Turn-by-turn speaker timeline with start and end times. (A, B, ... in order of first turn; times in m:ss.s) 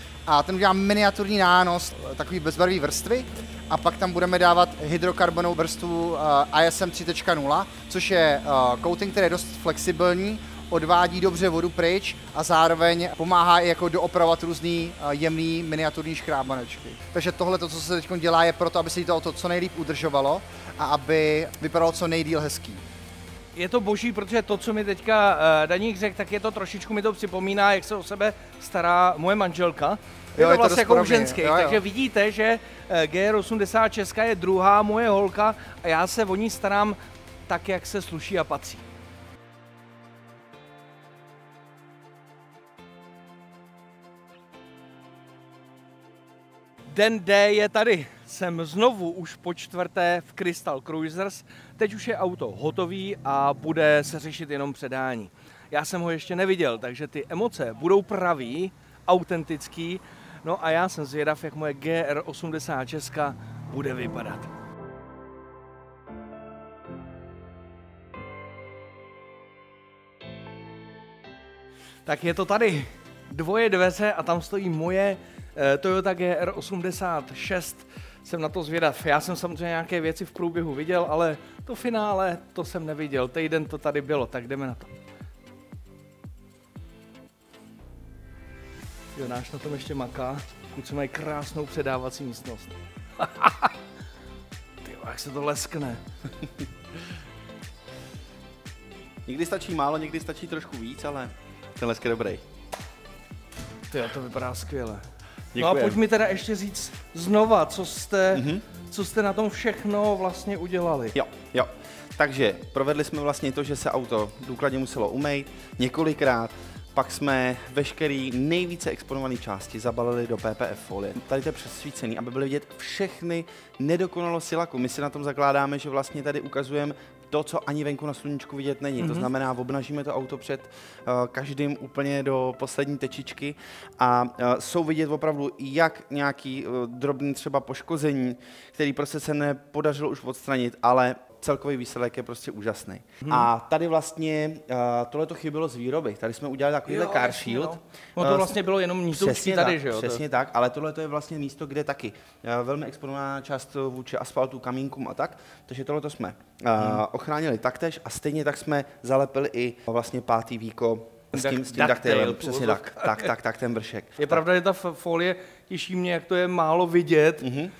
0:00.3-0:22.8 A
0:23.5-0:38.8 B
0:30.4-0:31.8 A
0:46.9-1:04.5 B
1:12.0-1:24.9 B
1:29.2-1:33.7 B
1:34.8-1:36.0 B
1:39.2-1:42.4 C
1:43.9-1:45.0 B
1:45.6-1:46.0 C
1:45.6-1:51.2 B
1:48.3-1:48.6 C
1:51.1-2:28.5 C
2:09.0-2:09.3 B
2:26.9-2:30.2 B
2:29.1-2:44.4 C
2:41.3-2:43.3 B
2:44.2-2:47.5 B
2:47.4-2:47.7 C